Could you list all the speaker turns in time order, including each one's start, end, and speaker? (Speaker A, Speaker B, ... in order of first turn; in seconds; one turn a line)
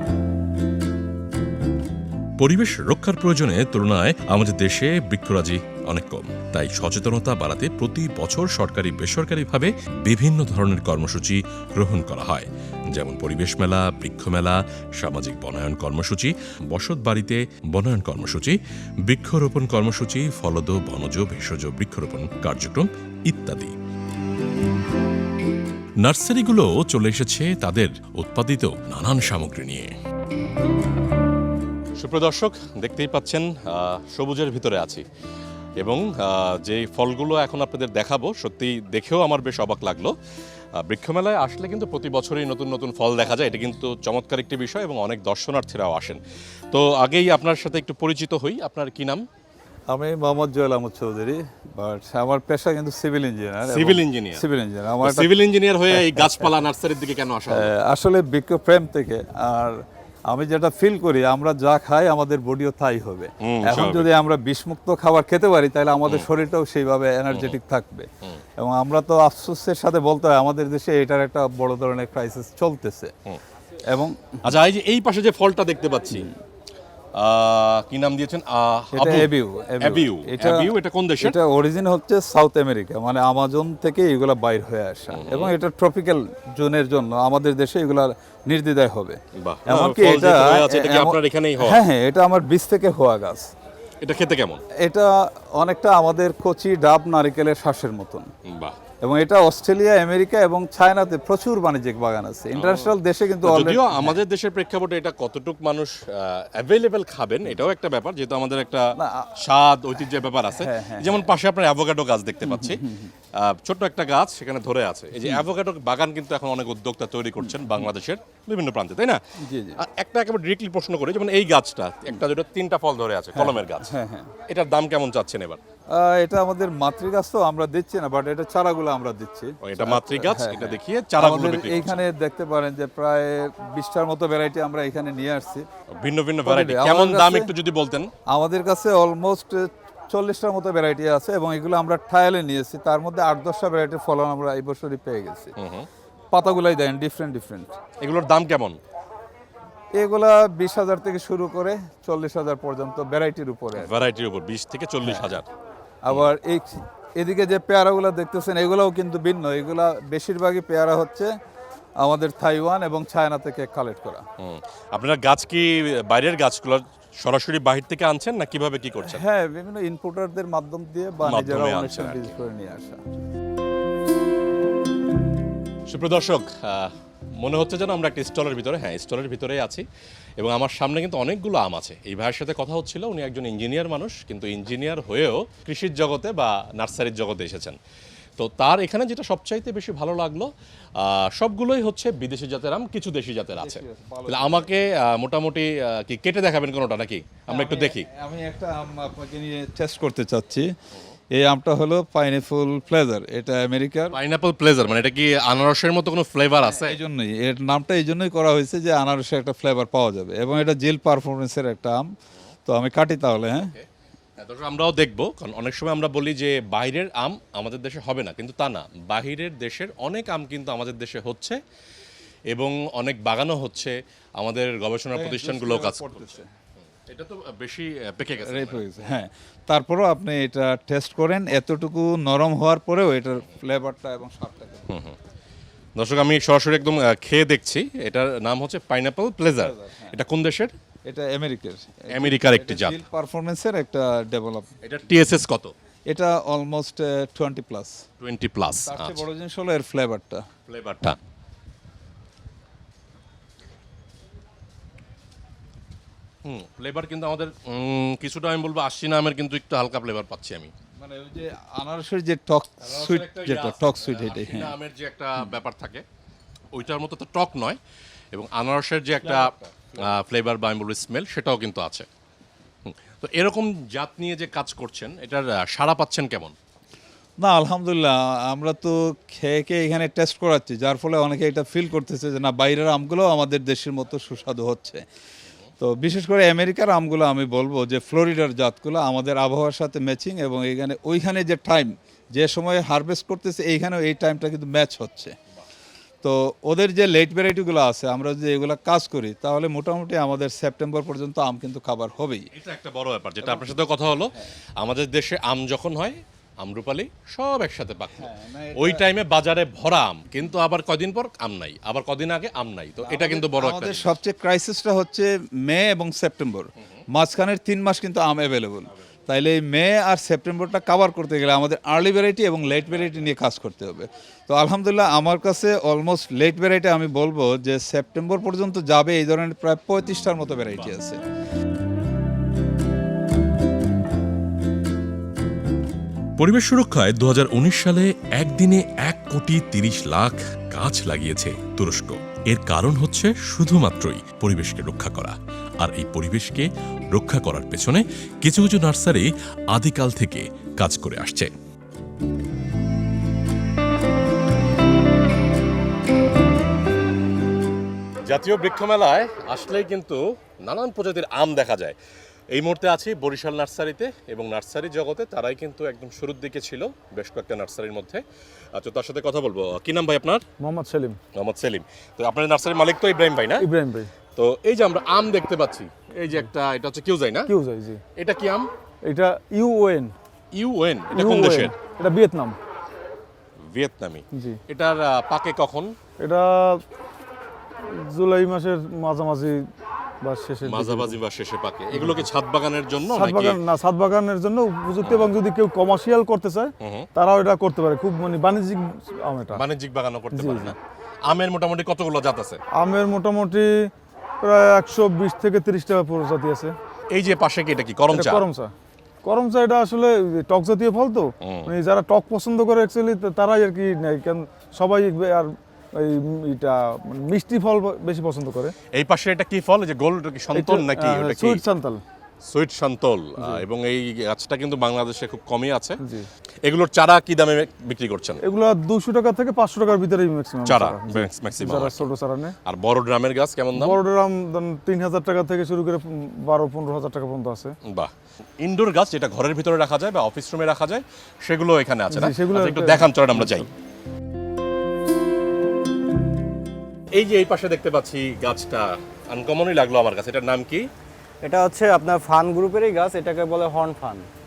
Speaker A: 2.4-18.6
Speaker A: 19.1-23.7
Speaker A: 26.0-29.9
Speaker A: 32.0-35.0
Speaker A: 35.8-40.1
Speaker A: 40.9-46.2
Speaker A: 46.7-49.2
Speaker B: 49.9-55.3
Speaker A: 53.7-54.4
Speaker A: 55.0-57.7
Speaker B: 55.9-56.5
Speaker B: 57.5-59.8
Speaker B: 60.3-68.1
Speaker A: 63.4-64.1
Speaker A: 67.3-67.6
Speaker B: 68.6-73.1
Speaker B: 73.9-74.4
Speaker A: 74.4-76.3
Speaker A: 77.2-79.3
Speaker B: 78.9-93.5
Speaker A: 79.8-81.4
Speaker A: 85.1-85.5
Speaker A: 89.4-91.8
Speaker A: 94.0-94.6
Speaker B: 94.8-98.3
Speaker A: 98.5-98.8
Speaker B: 99.0-104.2
Speaker A: 102.5-108.8
Speaker B: 109.0-109.3
Speaker A: 109.4-112.8
Speaker B: 110.6-111.3
Speaker B: 112.4-113.1
Speaker A: 113.5-119.2
Speaker B: 117.4-117.9
Speaker B: 119.4-119.8
Speaker A: 119.8-123.9
Speaker B: 123.3-124.3
Speaker A: 124.5-125.6
Speaker B: 125.9-135.7
Speaker A: 129.6-132.0
Speaker A: 135.9-138.1
Speaker B: 136.4-137.5
Speaker B: 138.3-145.6
Speaker A: 145.6-145.9
Speaker B: 146.3-147.8
Speaker A: 148.0-148.8
Speaker B: 149.9-153.9
Speaker A: 153.8-155.5
Speaker B: 155.0-155.4
Speaker B: 156.0-161.3
Speaker B: 162.0-164.2
Speaker A: 164.4-169.2
Speaker B: 169.0-173.0
Speaker A: 171.2-172.3
Speaker A: 175.9-176.9
Speaker A: 177.4-179.8
Speaker A: 180.4-187.8
Speaker A: 188.4-190.5
Speaker A: 191.1-198.1
Speaker B: 193.6-194.8
Speaker B: 197.5-200.7
Speaker B: 201.4-204.2
Speaker A: 204.1-207.0
Speaker B: 206.6-212.1
Speaker B: 212.7-213.7
Speaker A: 213.6-213.8
Speaker A: 214.4-221.6
Speaker A: 222.5-226.4
Speaker B: 225.1-226.5
Speaker A: 227.1-228.8
Speaker B: 228.4-234.9
Speaker A: 234.9-235.2
Speaker A: 236.0-240.7
Speaker B: 239.6-240.2
Speaker B: 241.1-244.7
Speaker A: 242.1-243.0
Speaker A: 244.8-245.7
Speaker B: 246.1-248.1
Speaker A: 248.2-249.2
Speaker B: 248.8-250.4
Speaker A: 250.7-251.2
Speaker A: 256.5-260.7
Speaker B: 261.0-264.8
Speaker A: 262.8-266.0
Speaker A: 266.7-267.8
Speaker A: 268.3-272.1
Speaker A: 272.9-276.6
Speaker B: 277.4-285.0
Speaker B: 285.8-295.3
Speaker B: 296.2-302.5
Speaker A: 302.5-308.2
Speaker B: 303.4-303.8
Speaker B: 308.2-309.1
Speaker A: 308.8-314.1
Speaker B: 313.1-331.2
Speaker A: 336.4-351.5
Speaker A: 358.3-361.9
Speaker A: 362.5-368.2
Speaker A: 368.8-370.4
Speaker C: 370.6-371.2
Speaker A: 371.4-373.6
Speaker C: 373.6-374.1
Speaker A: 374.4-377.5
Speaker C: 377.5-378.0
Speaker A: 378.2-378.7
Speaker C: 379.1-380.1
Speaker A: 380.5-381.8
Speaker C: 381.1-382.6
Speaker A: 383.7-385.9
Speaker C: 386.2-386.8
Speaker C: 388.1-389.5
Speaker C: 390.2-391.2
Speaker A: 390.6-393.6
Speaker C: 391.9-392.3
Speaker C: 393.1-399.6
Speaker A: 395.0-395.3
Speaker A: 399.5-400.8
Speaker C: 400.3-400.8
Speaker A: 401.3-402.6
Speaker C: 402.8-403.7
Speaker C: 404.4-406.7
Speaker A: 407.1-408.5
Speaker C: 408.1-408.7
Speaker C: 409.2-418.7
Speaker A: 411.5-411.7
Speaker A: 419.0-421.6
Speaker C: 420.5-422.0
Speaker A: 422.5-426.0
Speaker A: 426.6-428.4
Speaker C: 428.4-432.5
Speaker A: 430.6-432.1
Speaker A: 432.7-434.0
Speaker C: 433.8-437.7
Speaker A: 438.6-443.7
Speaker C: 442.1-443.7
Speaker A: 447.1-450.8
Speaker D: 451.4-454.3